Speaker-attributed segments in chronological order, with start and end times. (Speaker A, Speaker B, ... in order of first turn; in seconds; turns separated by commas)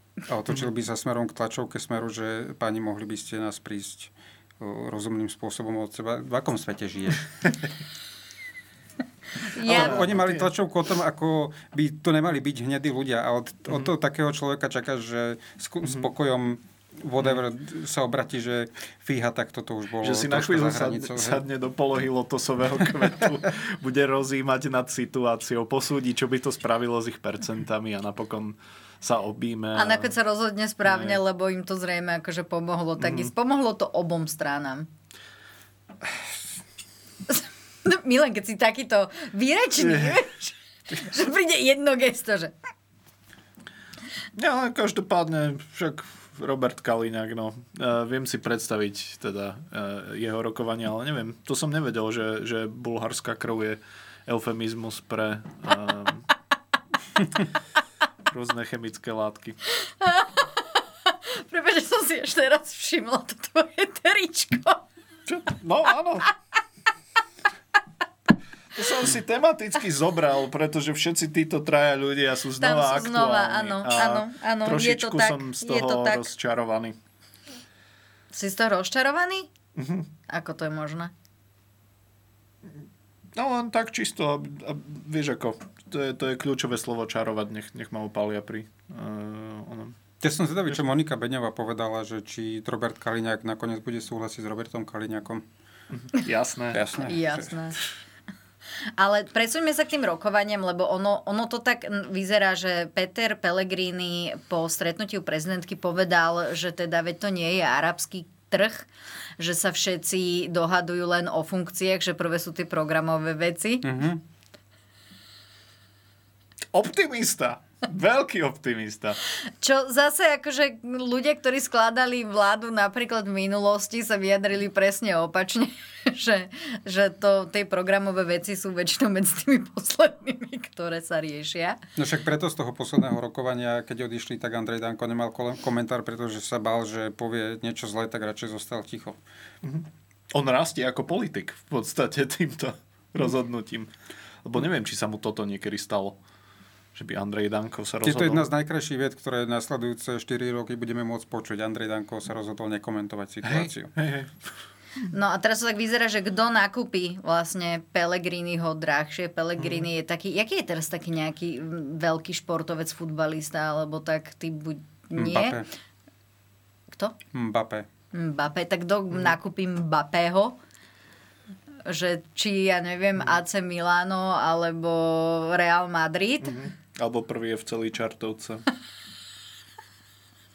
Speaker A: 0.3-7.2, Speaker B: 9.4-10.0, Speaker A: 9.6-21.4, Speaker C: 9.7-10.5, Speaker C: 20.0-30.1, Speaker B: 29.7-34.9, Speaker C: 30.9-31.2, Speaker C: 33.0-33.3, Speaker B: 37.3-42.5, Speaker C: 39.8-40.2, Speaker C: 44.3-56.2, Speaker C: 58.3-59.6, Speaker B: 60.0-60.6, Speaker B: 61.3-64.8, Speaker C: 65.3-66.3, Speaker C: 68.7-77.0, Speaker B: 72.6-76.3, Speaker B: 78.3-79.5, Speaker C: 79.8-80.1, Speaker B: 80.3-81.1, Speaker C: 83.3-90.0, Speaker A: 90.2-95.4, Speaker C: 96.1-96.8, Speaker A: 96.7-97.5, Speaker B: 97.0-97.8, Speaker B: 99.0-108.9, Speaker B: 109.4-113.8, Speaker A: 113.8-114.2, Speaker C: 116.7-119.2, Speaker B: 119.6-131.8, Speaker A: 132.0-139.2, Speaker C: 139.6-143.9, Speaker C: 144.4-146.2, Speaker C: 146.9-148.5, Speaker A: 148.0-153.9, Speaker C: 153.4-154.4, Speaker B: 155.1-165.6, Speaker C: 159.6-159.8, Speaker A: 165.2-165.6, Speaker A: 167.3-167.8, Speaker B: 168.1-170.6, Speaker B: 171.8-176.5, Speaker C: 176.4-178.6